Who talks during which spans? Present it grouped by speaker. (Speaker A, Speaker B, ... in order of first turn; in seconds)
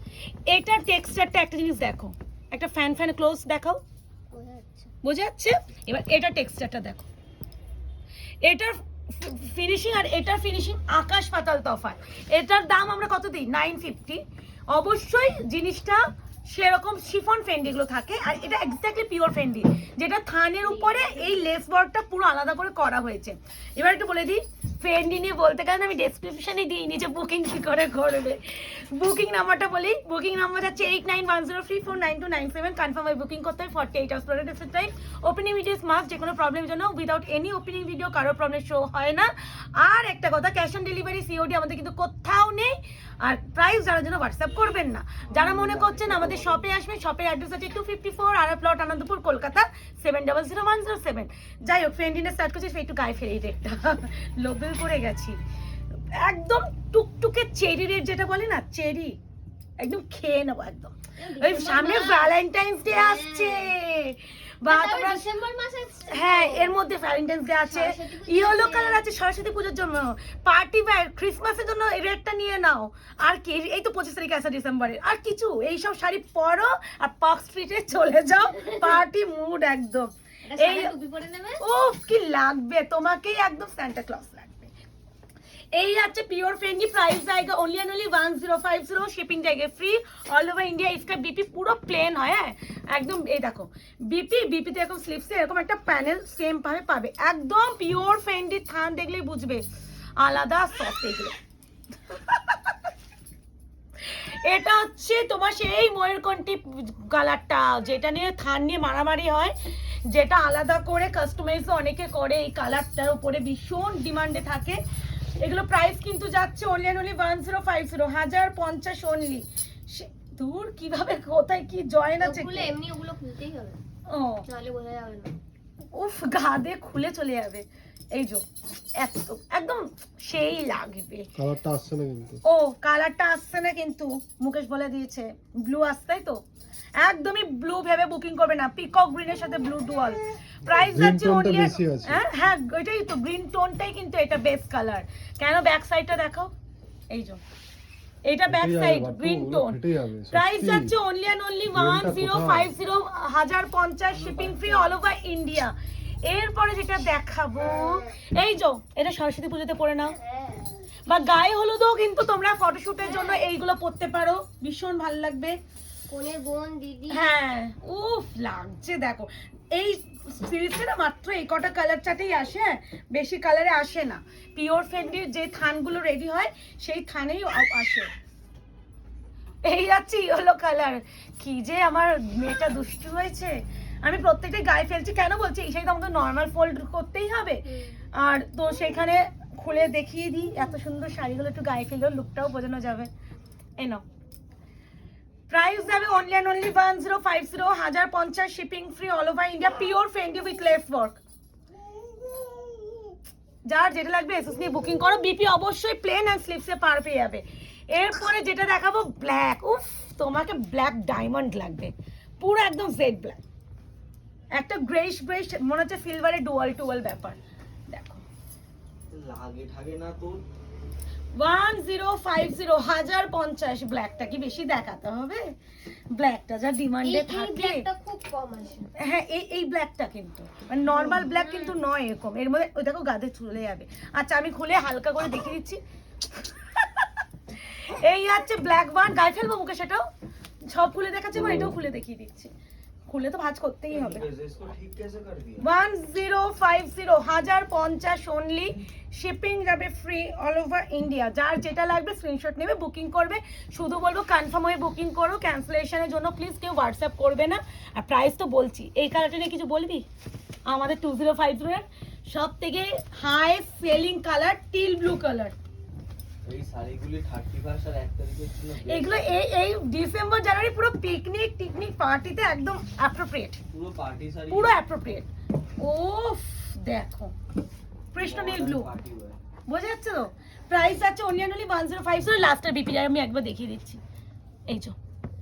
Speaker A: 0.5-3.8, 5.0-7.1, 8.4-55.4, 56.1-59.2, 59.8-65.2, 66.1-80.9, 81.6-84.7, 85.7-99.7, 100.2-101.4, 102.3-102.6, 104.0-114.8, 115.3-122.7, 124.1-124.5, 125.9-128.4, 128.9-131.3, 132.4-136.4, 137.0-146.5, 147.1-147.4, 148.2-155.7, 156.2-160.2, 161.1-165.6, 167.1-178.1, 179.6-193.1, 193.8-194.0, 195.5-201.2, 203.7-213.4, 214.5-217.4, 217.9-218.2, 221.3-225.5, 226.1-227.8, 229.0-235.8, 236.8-237.1, 237.7-240.1, 240.6-242.5, 243.1-244.2, 245.6-260.1, 260.7-265.5, 268.9-273.6, 274.5-277.3, 278.1-278.9, 279.7-284.0, 284.7-284.9
Speaker B: 4.3-4.9, 20.6-21.4, 61.2-62.3, 62.9-63.8, 64.7-66.8, 67.6-69.0, 80.5-81.6, 122.2-123.8, 124.5-125.4, 160.2-160.7, 166.1-167.3, 187.6-188.1, 227.0-228.9, 230.9-231.8
Speaker C: 45.3-46.6, 154.1-155.0, 219.1-220.4, 243.9-245.6, 266.4-269.1, 273.7-274.8, 278.2-279.4
Speaker D: 131.3-132.4, 140.7-142.2, 148.5-150.9, 151.7-152.7